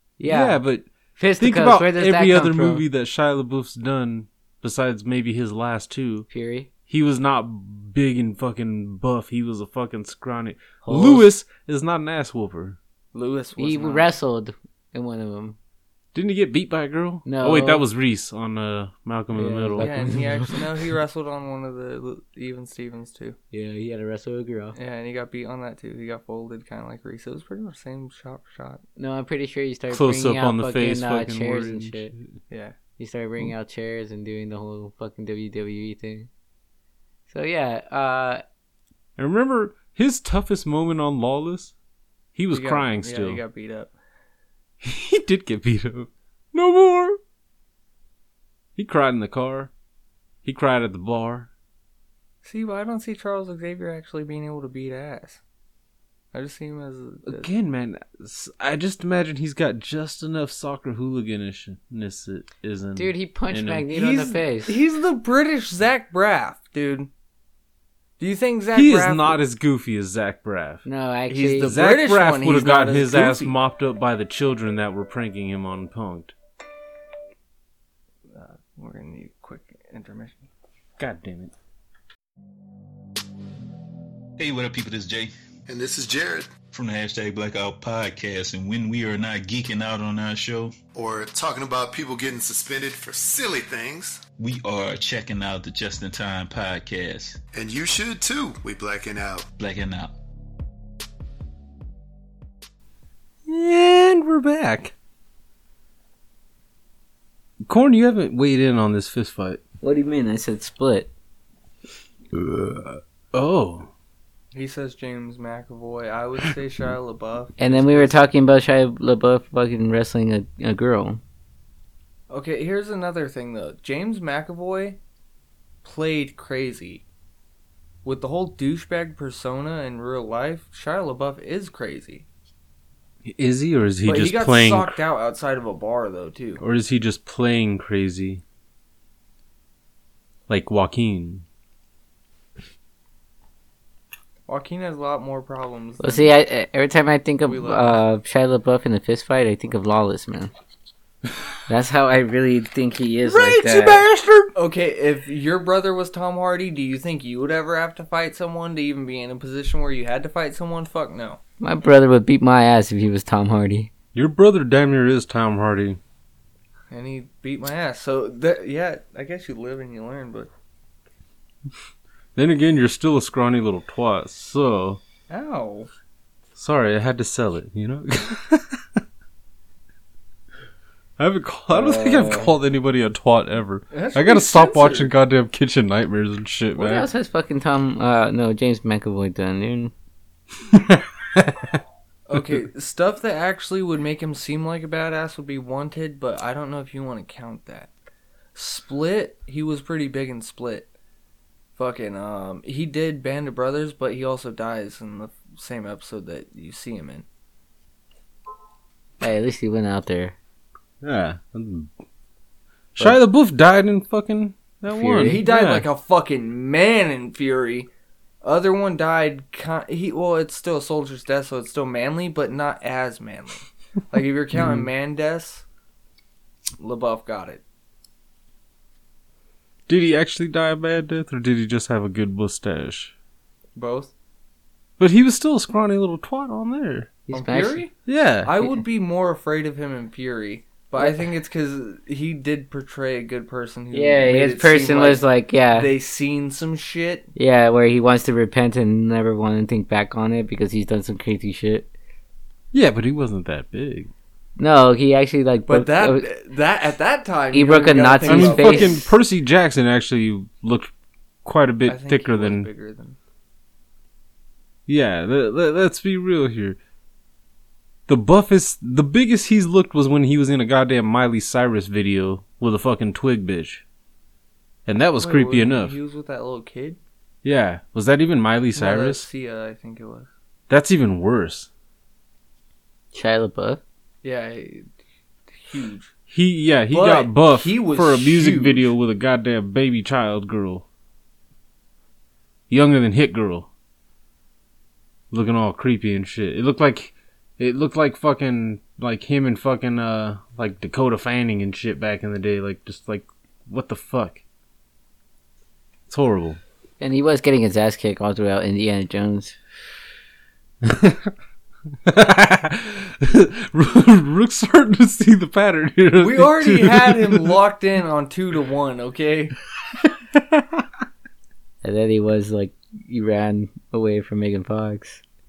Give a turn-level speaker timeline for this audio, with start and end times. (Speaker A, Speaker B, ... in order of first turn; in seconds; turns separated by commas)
Speaker A: 0.2-0.6, Speaker B: 0.2-6.3, Speaker A: 1.2-2.8, Speaker A: 6.3-6.7, Speaker B: 6.9-12.8, Speaker A: 10.8-11.3, Speaker C: 13.1-14.1, Speaker A: 13.6-15.6, Speaker B: 16.1-20.2, Speaker A: 17.2-17.8, Speaker A: 19.3-20.6, Speaker C: 19.8-23.4, Speaker A: 23.5-24.8, Speaker C: 24.7-28.8, Speaker A: 29.0-32.1, Speaker B: 29.9-32.3, Speaker C: 32.5-32.8, Speaker A: 33.0-36.3, Speaker A: 37.3-38.4, Speaker B: 39.2-41.7, Speaker B: 42.3-43.4, Speaker C: 42.5-43.9, Speaker B: 44.8-47.2, Speaker B: 48.8-49.7, Speaker B: 50.4-51.5, Speaker C: 52.4-55.4, Speaker C: 56.3-57.5, Speaker B: 57.2-63.9, Speaker A: 63.0-64.8, Speaker C: 63.9-67.1, Speaker C: 68.2-69.4, Speaker B: 68.7-70.8, Speaker A: 70.8-71.7, Speaker C: 71.3-73.5, Speaker B: 71.6-76.3, Speaker C: 78.3-80.5, Speaker B: 81.0-81.5, Speaker D: 84.4-85.3, Speaker E: 85.7-86.5, Speaker D: 86.7-90.7, Speaker E: 90.9-94.2, Speaker D: 94.4-97.4, Speaker E: 97.5-99.4, Speaker D: 99.6-100.1, Speaker B: 103.5-104.9, Speaker B: 107.7-109.6, Speaker A: 109.8-111.1, Speaker B: 112.3-113.9, Speaker C: 114.5-118.2, Speaker A: 117.6-121.2, Speaker C: 122.3-125.0, Speaker C: 125.8-127.0, Speaker C: 128.0-132.3, Speaker B: 133.2-135.0, Speaker C: 134.0-136.6, Speaker B: 136.6-138.4, Speaker B: 140.5-141.4, Speaker C: 144.5-146.3, Speaker A: 146.0-150.5, Speaker C: 147.4-148.0, Speaker A: 151.7-154.0, Speaker B: 153.2-154.5, Speaker C: 154.5-161.4, Speaker A: 161.6-163.9, Speaker B: 164.1-166.0, Speaker C: 166.9-170.5, Speaker B: 172.3-175.0, Speaker C: 175.3-175.9, Speaker B: 176.5-178.8, Speaker B: 181.2-187.1, Speaker A: 181.7-182.5, Speaker C: 183.9-185.1, Speaker A: 186.8-189.9, Speaker B: 190.7-191.8, Speaker C: 192.3-197.9, Speaker C: 198.5-200.9, Speaker C: 201.8-207.2, Speaker A: 209.2-210.3, Speaker B: 211.0-211.9, Speaker B: 213.0-215.9, Speaker A: 214.9-215.4, Speaker C: 215.2-217.9, Speaker C: 218.4-225.6, Speaker C: 226.8-227.6, Speaker B: 229.9-233.1, Speaker C: 233.8-234.1, Speaker B: 235.0-237.1, Speaker A: 237.3-237.8, Speaker C: 237.3-247.3, Speaker B: 238.1-238.5, Speaker A: 243.9-245.9, Speaker A: 247.3-251.9, Speaker B: 252.7-254.1, Speaker A: 254.6-256.3, Speaker C: 255.7-259.0, Speaker A: 257.5-259.1, Speaker B: 258.3-260.9, Speaker B: 261.4-262.7, Speaker C: 261.9-263.2, Speaker B: 264.9-266.8, Speaker B: 268.1-273.8, Speaker B: 274.9-276.0, Speaker C: 275.2-277.0, Speaker B: 277.4-279.2, Speaker C: 278.7-280.3, Speaker B: 280.7-281.7, Speaker A: 283.1-283.8, Speaker C: 284.2-284.9, Speaker C: 285.5-286.1, Speaker B: 286.3-290.8, Speaker C: 286.9-288.9, Speaker B: 292.7-293.7, Speaker B: 295.3-304.4, Speaker B: 306.1-306.6, Speaker A: 307.0-309.6, Speaker B: 310.8-311.2, Speaker B: 312.1-317.6, Speaker C: 316.2-319.6, Speaker B: 320.3-320.6, Speaker A: 321.8-325.2